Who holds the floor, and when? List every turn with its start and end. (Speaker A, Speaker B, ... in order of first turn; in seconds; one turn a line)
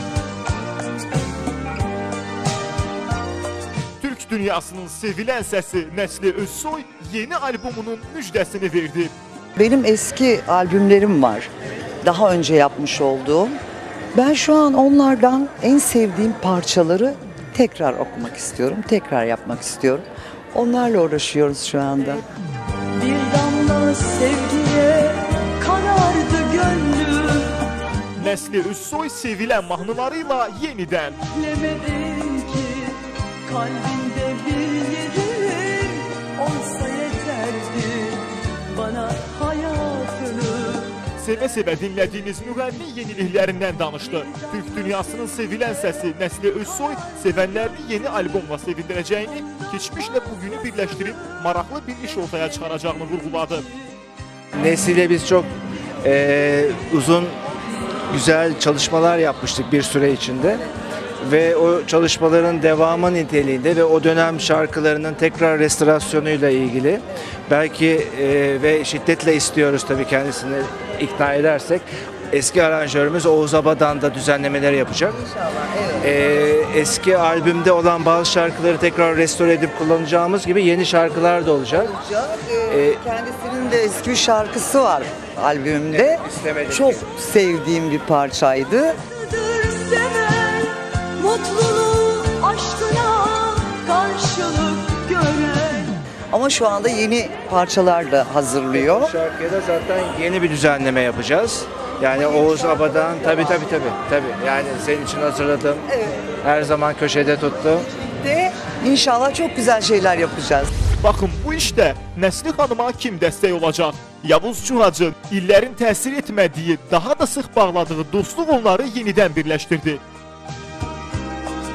Speaker A: 4.0-9.1
Speaker B: 9.6-11.5
Speaker B: 12.0-13.6
Speaker B: 14.2-22.2
Speaker C: 22.9-27.6
Speaker A: 28.2-31.2
Speaker C: 31.3-41.0
Speaker A: 41.1-53.7
Speaker D: 54.6-57.4
Speaker D: 58.1-60.6
Speaker D: 61.2-75.2
Speaker B: 75.3-76.0
Speaker D: 76.0-82.0
Speaker B: 81.9-89.0
Speaker D: 82.7-83.0
Speaker D: 86.3-87.0
Speaker C: 89.3-90.3
Speaker C: 91.2-96.0
Speaker B: 96.3-99.1
Speaker D: 98.7-105.9
Speaker D: 106.4-107.9
Speaker B: 108.1-110.7
Speaker A: 111.0-120.0